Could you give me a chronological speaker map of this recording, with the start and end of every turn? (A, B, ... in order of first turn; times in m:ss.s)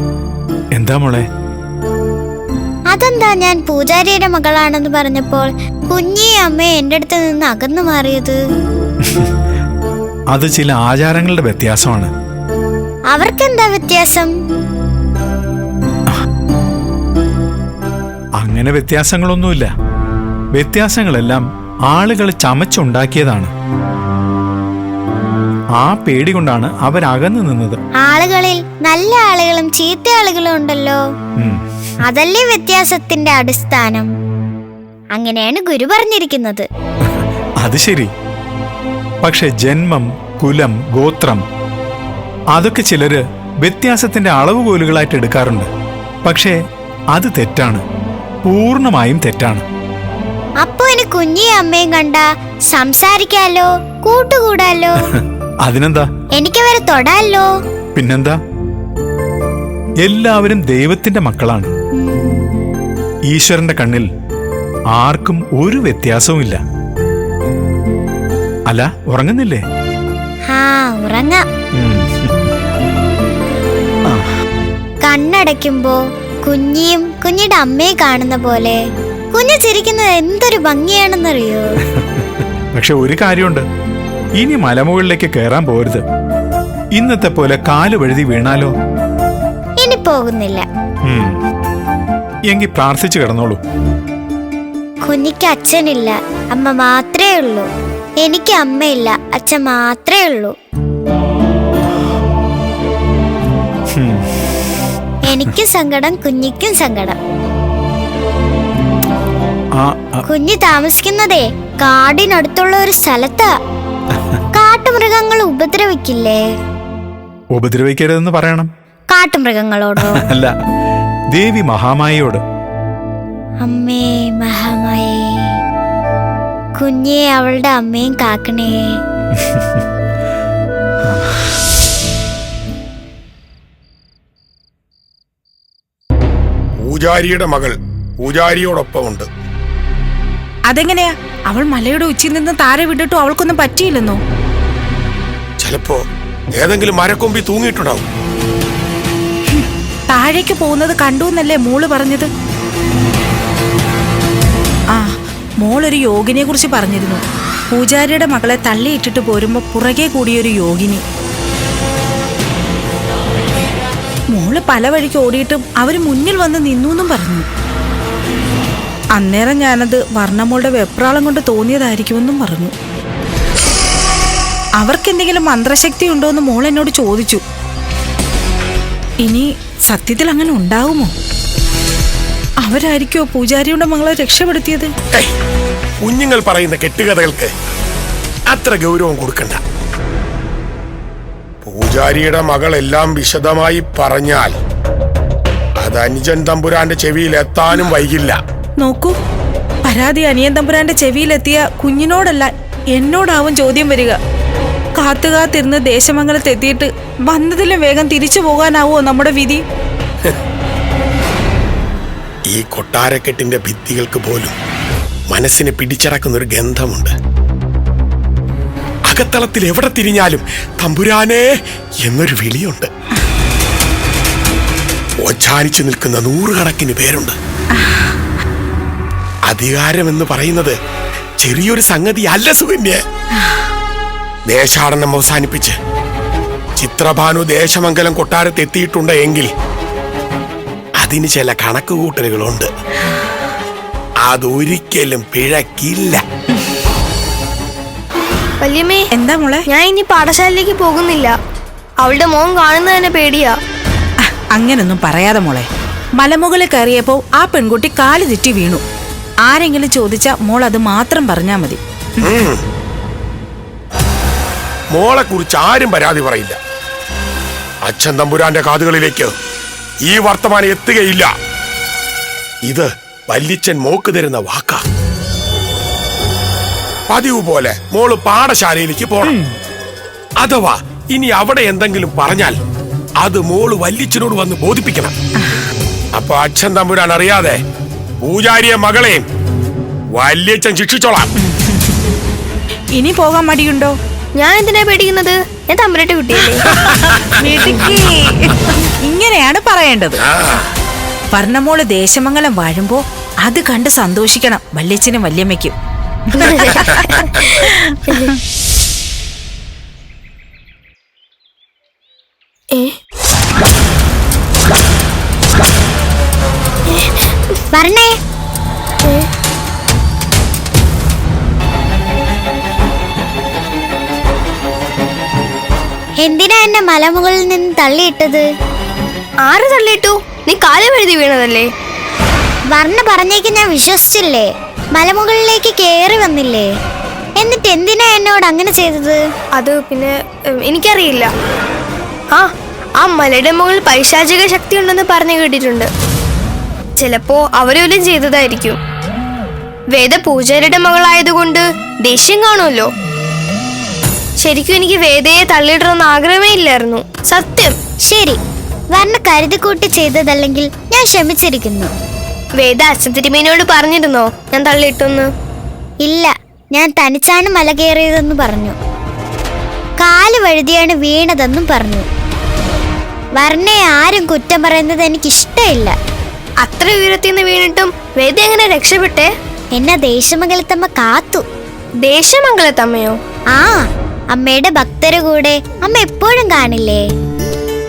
0:00.8-0:01.2 A
0:02.9-0:08.4 B
0:09.0-0:09.3 A
0:10.3-0:12.1 A
0:13.1-0:14.3 B
0:18.4-0:19.7 A
0:20.5-0:23.5 A
0:25.8-0:27.8 A
0:28.0-0:31.0 B
0:32.0-0:34.1 B
0:35.2-0:36.6 B
0:37.0-0:38.1 A
0:39.2-0:41.4 A
0:42.5-0:45.7 A
0:46.2-0:46.6 A
0:47.1-0:47.8 A
0:48.4-0:49.6 A
0:50.6-0:55.0 B
0:55.1-0:56.1 A
0:56.4-0:57.5 B
0:58.0-0:58.4 A
1:00.0-1:01.7 A
1:02.0-1:02.4 B
1:03.3-1:04.1 A
1:04.9-1:06.6 A
1:08.7-1:09.6 A
1:10.5-1:11.4 B
1:11.7-1:12.5 A
1:15.0-1:18.8 B
1:19.3-1:21.7 B
1:21.9-1:23.6 A
1:24.4-1:26.0 A
1:27.0-1:28.7 A
1:29.8-1:30.6 B
1:31.0-1:31.4 A
1:32.5-1:33.6 A
1:35.1-1:37.7 B
1:38.2-1:40.5 B
1:43.9-1:44.3 A
1:45.3-1:47.2 B
1:49.8-1:50.2 A
1:50.2-1:53.5 B
1:54.1-1:54.4 A
1:54.5-1:56.4 B
1:57.5-1:58.7 A
1:59.1-2:00.2 B
2:00.1-2:00.5 A
2:01.3-2:02.4 A
2:03.6-2:05.5 B
2:06.8-2:08.9 B
2:09.4-2:09.8 A
2:11.0-2:11.4 A
2:16.8-2:19.3 C
2:20.7-2:24.2 D
2:25.6-2:26.0 C
2:26.6-2:28.0 C
2:29.5-2:32.3 D
2:34.9-2:41.0 D
2:44.3-2:47.5 D
2:49.1-2:52.7 D
2:54.8-2:57.4 D
2:59.2-3:01.1 D
3:02.6-3:04.9 D
3:06.0-3:07.5 C
3:08.5-3:09.6 C
3:11.6-3:14.6 C
3:15.8-3:18.4 C
3:18.8-3:19.2 D
3:19.8-3:24.2 D
3:25.0-3:29.6 D
3:32.5-3:34.5 C
3:35.3-3:37.1 C
3:39.1-3:41.5 C
3:42.0-3:42.9 C
3:45.2-3:47.4 C
3:49.5-3:50.8 C
3:51.4-3:53.0 C
3:54.5-3:55.8 C
3:56.8-3:59.5 C
4:01.0-4:02.7 C
4:04.2-4:06.2 C
4:08.6-4:09.1 E
4:09.1-4:09.6 D
4:09.7-4:11.4 E
4:12.0-4:13.6 E
4:14.3-4:18.8 D
4:19.4-4:22.4 D
4:22.2-4:22.6 C
4:24.9-4:26.6 C
4:27.8-4:29.3 C
4:30.0-4:31.3 C
4:32.6-4:34.8 C
4:37.1-4:39.4 C
4:39.2-4:39.5 D
4:40.4-4:42.6 C
4:43.2-4:45.1 C
4:46.2-4:47.6 C
4:48.2-4:49.2 C
4:50.1-4:51.3 C
4:51.5-4:51.8 D
4:52.9-4:53.9 D
4:54.4-4:56.7 E
4:56.9-5:00.2 D
4:57.4-4:58.4 E
5:01.3-5:05.7 D
5:06.3-5:08.4 D
5:16.9-5:17.6 E
5:17.7-5:18.1 B
5:26.2-5:28.4 B
5:29.4-5:31.7 E
5:32.7-5:36.6 B
5:37.4-5:39.2 B
5:39.6-5:41.3 E
5:42.3-5:45.9 E
5:47.0-5:48.8 E
5:49.9-5:52.9 E
5:54.4-5:57.8 E
5:58.1-5:58.4 B
5:58.9-6:01.9 B
6:02.6-6:05.3 E
6:06.0-6:08.7 B
6:10.0-6:12.0 B
6:13.4-6:15.9 B
6:16.6-6:19.3 E
6:19.7-6:21.4 B
6:22.0-6:23.2 E
6:23.5-6:23.8 B
6:24.3-6:27.0 B